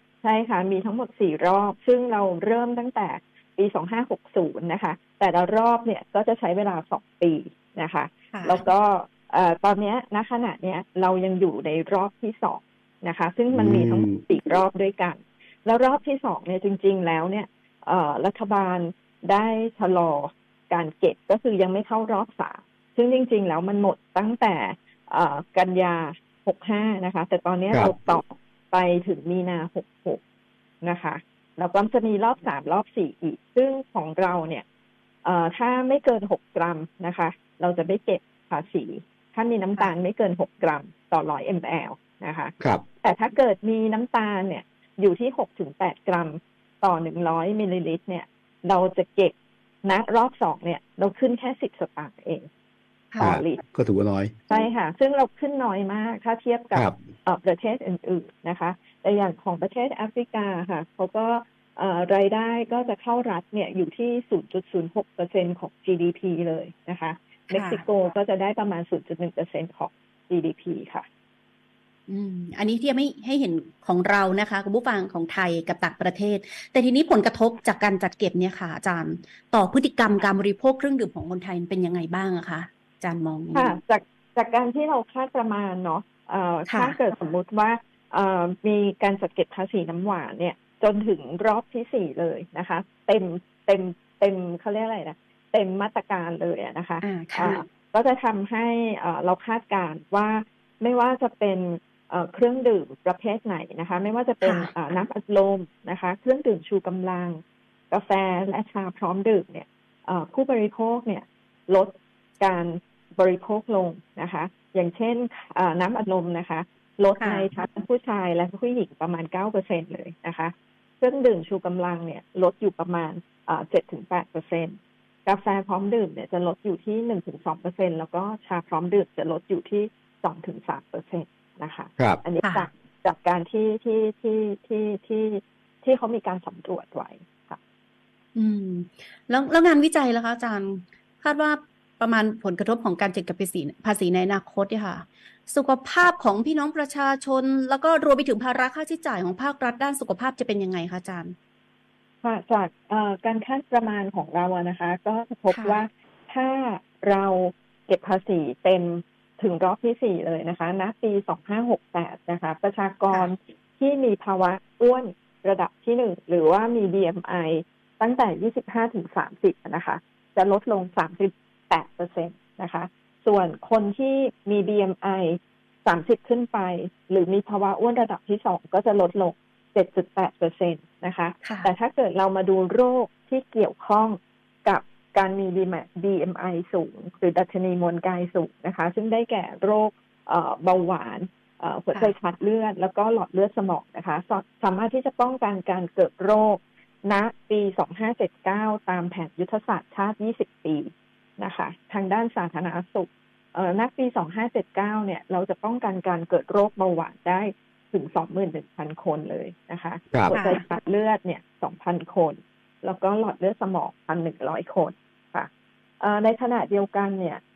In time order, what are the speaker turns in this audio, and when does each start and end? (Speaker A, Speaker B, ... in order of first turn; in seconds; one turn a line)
Speaker A: 0.2-30.2
Speaker B: 8.3-8.7
Speaker C: 13.5-14.2
Speaker C: 27.7-28.0
Speaker A: 30.8-34.6
Speaker A: 35.2-52.5
Speaker A: 53.2-53.6
Speaker C: 53.2-54.3
Speaker A: 54.5-71.1
Speaker C: 56.7-57.0
Speaker B: 67.5-67.8
Speaker B: 72.1-83.8
Speaker A: 83.5-137.6
Speaker B: 86.7-87.0
Speaker B: 97.0-97.6
Speaker B: 104.4-105.0
Speaker B: 117.2-117.5
Speaker B: 138.3-151.3
Speaker A: 152.2-215.5
Speaker B: 155.5-155.8
Speaker B: 181.4-181.7
Speaker C: 210.1-210.4
Speaker B: 210.3-210.6
Speaker A: 216.0-217.4